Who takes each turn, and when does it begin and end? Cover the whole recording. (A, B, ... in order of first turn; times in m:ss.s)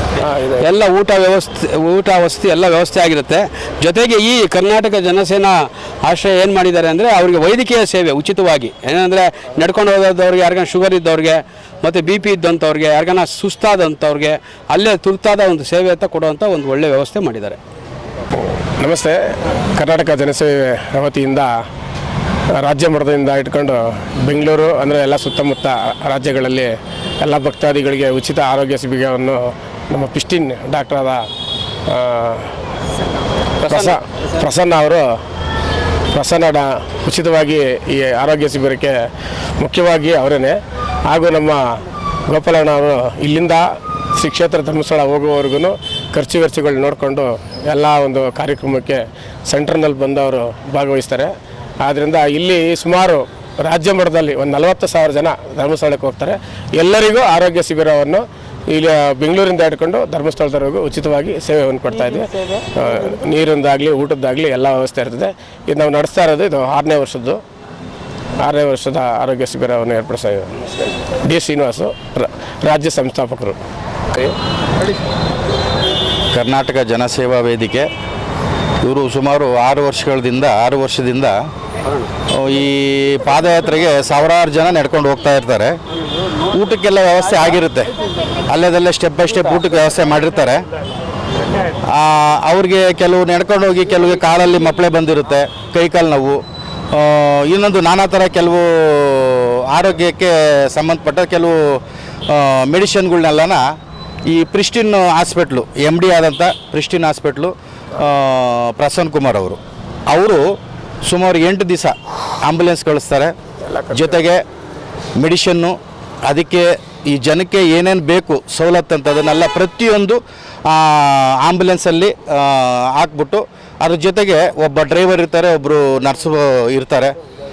0:00.2-0:00.7 A
0:00.6-0:17.6 B
0:18.4-0:21.5 A
0:22.5-0:31.2 A
0:31.9-0:32.5 A
0:33.6-0:33.9 B
0:33.7-0:35.1 A
0:36.1-0:39.0 A
0:39.6-0:41.6 A
0:42.3-1:07.4 A
1:08.4-1:13.6 A
1:16.3-1:17.9 C
1:18.8-1:21.4 C
1:22.3-1:25.7 C
1:26.5-1:27.9 C
1:28.5-1:30.6 C
1:31.9-1:36.4 C
1:36.9-1:43.6 C
1:44.3-1:50.4 C
1:51.0-1:51.9 C
1:52.4-1:53.3 C
1:53.6-1:54.2 A
1:53.9-1:54.4 C
1:55.2-1:55.7 C
1:56.2-2:07.1 C